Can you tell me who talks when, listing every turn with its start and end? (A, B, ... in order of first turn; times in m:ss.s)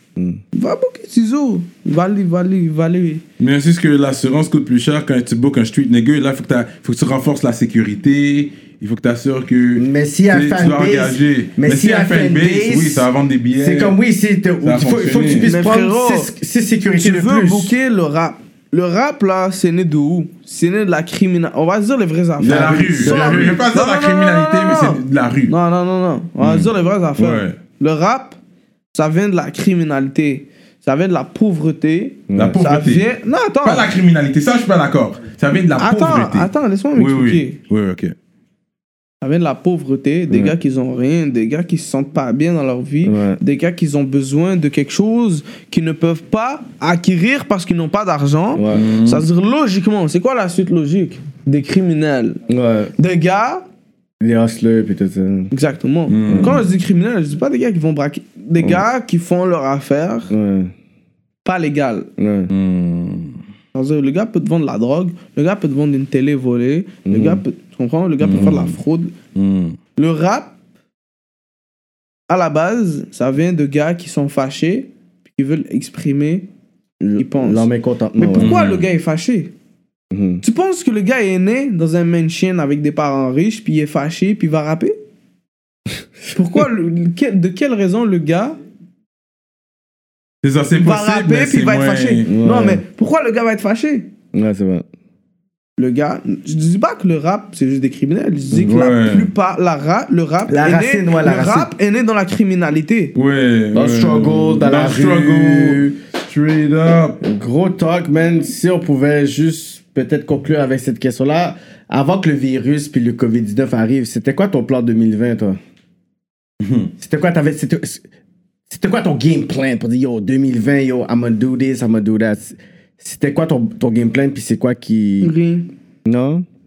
0:00.2-0:00.4 A
0:00.5-0:03.2 B
0:03.4-0:14.0 C
0:09.8-0:17.8 A
0:14.6-0:15.5 C
0:15.4-0:16.3 B
0:17.0-0:28.4 B
0:22.4-0:23.6 A
0:22.4-0:25.5 C
0:26.4-0:27.6 C
0:28.9-0:33.9 B
0:32.3-0:32.6 A
0:32.3-0:33.0 C
0:33.6-0:38.1 C
0:35.8-0:37.6 B
0:39.2-0:52.4 B
0:43.0-0:43.4 A
0:48.5-0:48.8 A
0:48.7-0:49.2 C
0:52.5-0:52.9 A
0:53.0-0:53.6 B
0:54.2-0:55.5 A
0:55.5-1:00.3 B
0:56.1-0:56.6 C
0:56.3-0:56.6 A
1:00.3-1:00.7 A
1:01.4-1:02.1 B
1:02.2-1:02.5 A
1:02.5-1:03.4 C
1:03.7-1:09.1 B
1:07.0-1:07.4 A
1:08.2-1:08.8 C
1:09.3-1:09.8 C
1:10.0-1:10.5 B
1:12.3-1:16.5 B
1:17.0-1:18.5 A
1:17.2-1:19.5 B
1:18.3-1:18.8 C
1:20.1-1:20.4 A
1:20.4-1:25.0 B
1:26.3-1:28.6 B
1:30.4-1:32.3 C
1:30.7-1:34.1 B
1:32.2-1:32.8 A
1:34.3-1:34.8 A
1:35.8-1:43.1 B
1:38.6-1:39.3 C
1:40.5-1:41.7 A
1:43.1-1:47.2 C
1:43.7-1:45.9 A
1:47.2-1:55.6 A
1:56.6-1:56.9 C
1:57.0-1:58.0 A
1:58.7-2:05.3 A
2:05.2-2:05.7 B
2:06.0-2:06.4 A